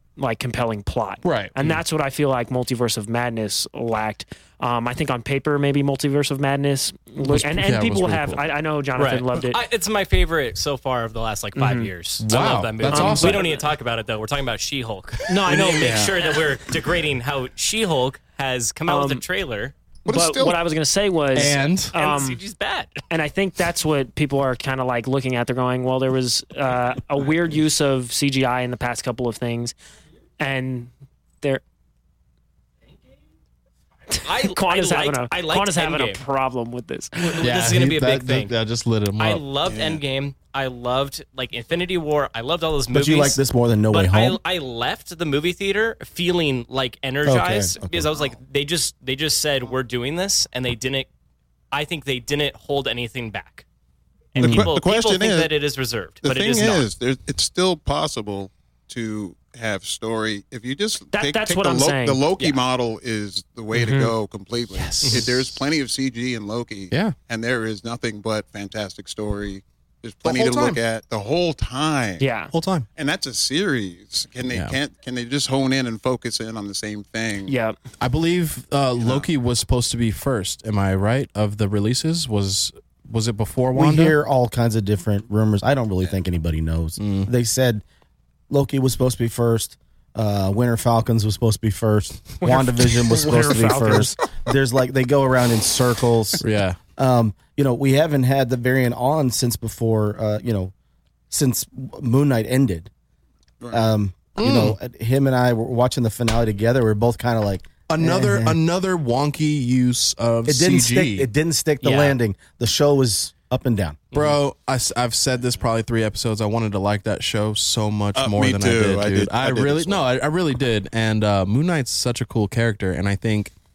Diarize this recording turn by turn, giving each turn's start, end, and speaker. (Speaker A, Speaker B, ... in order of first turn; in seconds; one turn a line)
Speaker A: 0.2-9.6
Speaker B: 1.2-1.8
Speaker B: 7.2-8.4
Speaker C: 8.9-19.7
Speaker A: 11.6-11.9
Speaker B: 12.2-13.5
Speaker A: 12.9-13.6
Speaker A: 15.2-16.1
Speaker B: 15.7-16.2
Speaker A: 18.9-19.2
Speaker D: 20.1-20.6
Speaker A: 20.1-22.4
Speaker B: 21.3-21.9
Speaker C: 21.9-23.0
Speaker A: 23.1-29.7
Speaker A: 30.4-30.9
Speaker A: 34.1-37.5
Speaker C: 34.2-36.2
Speaker B: 37.4-39.4
Speaker C: 37.4-38.5
Speaker C: 39.2-51.1
Speaker D: 39.6-40.0
Speaker E: 42.9-44.4
Speaker E: 47.2-48.3
Speaker C: 51.7-53.6
Speaker C: 54.3-56.9
Speaker E: 54.4-54.7
Speaker D: 54.4-55.5
Speaker D: 56.2-72.3
Speaker A: 61.1-62.2
Speaker B: 63.8-64.1
Speaker B: 64.7-65.6
Speaker B: 66.9-67.2
Speaker B: 70.2-70.8
Speaker A: 72.2-72.5
Speaker B: 72.5-72.9
Speaker D: 73.0-77.5
Speaker B: 74.5-74.8
Speaker A: 77.5-77.8
Speaker B: 78.0-84.1
Speaker D: 79.0-79.3
Speaker E: 83.7-87.8
Speaker B: 87.0-87.3
Speaker E: 88.5-96.4
Speaker A: 92.4-94.2
Speaker B: 96.4-96.8
Speaker E: 97.0-100.7
Speaker E: 101.3-102.9
Speaker D: 103.6-103.9
Speaker E: 103.7-108.6
Speaker B: 104.4-104.8
Speaker B: 107.9-111.3
Speaker E: 110.5-114.1
Speaker C: 111.8-112.2
Speaker B: 114.1-123.5
Speaker D: 118.1-120.1